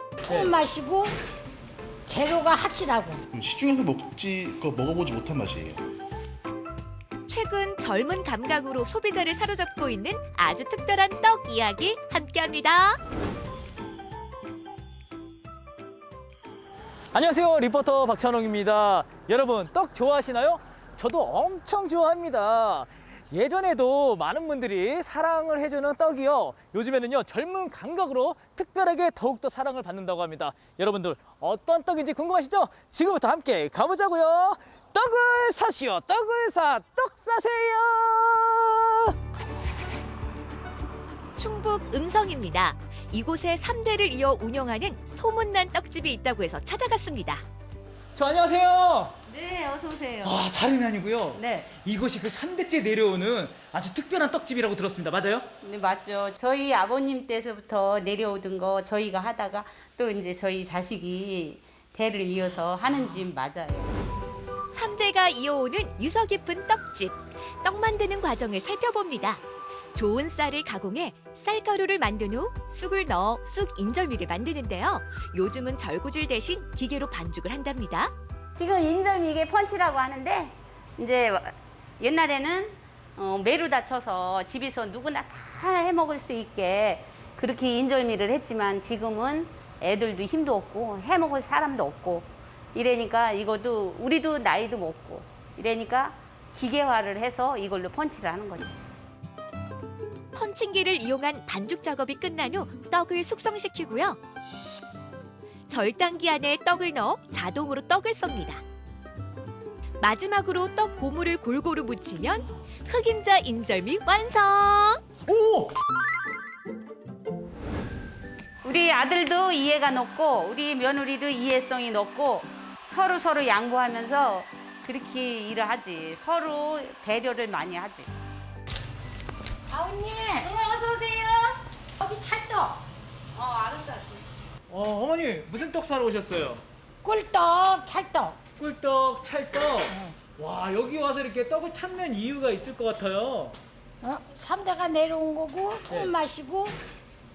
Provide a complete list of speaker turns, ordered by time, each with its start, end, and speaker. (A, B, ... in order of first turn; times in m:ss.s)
0:00.2-0:01.1 A
0:00.2-0:00.5 B
0:02.1-0:03.2 A
0:03.3-0:05.8 C
0:07.3-0:13.0 D
0:17.1-0:39.1 B
0:41.4-0:47.4 D
0:48.1-0:49.2 B
0:49.3-0:50.4 E
0:50.2-0:55.5 B
0:51.3-0:51.6 E
0:55.6-1:03.9 E
1:04.7-1:09.4 D
1:09.9-1:18.1 D
1:18.6-1:38.8 E
1:40.3-1:44.2 D
1:45.7-1:48.6 D
1:50.0-1:55.0 D
1:55.3-1:55.7 B
1:58.6-2:08.1 E
2:09.7-2:10.5 A
2:10.4-2:11.6 E
2:12.0-2:12.8 A
2:13.3-2:14.2 E
2:14.7-2:16.6 B
2:17.0-2:18.4 A
2:18.6-2:23.6 B
2:19.9-2:20.2 A
2:24.0-2:26.8 A
2:25.9-2:26.1 B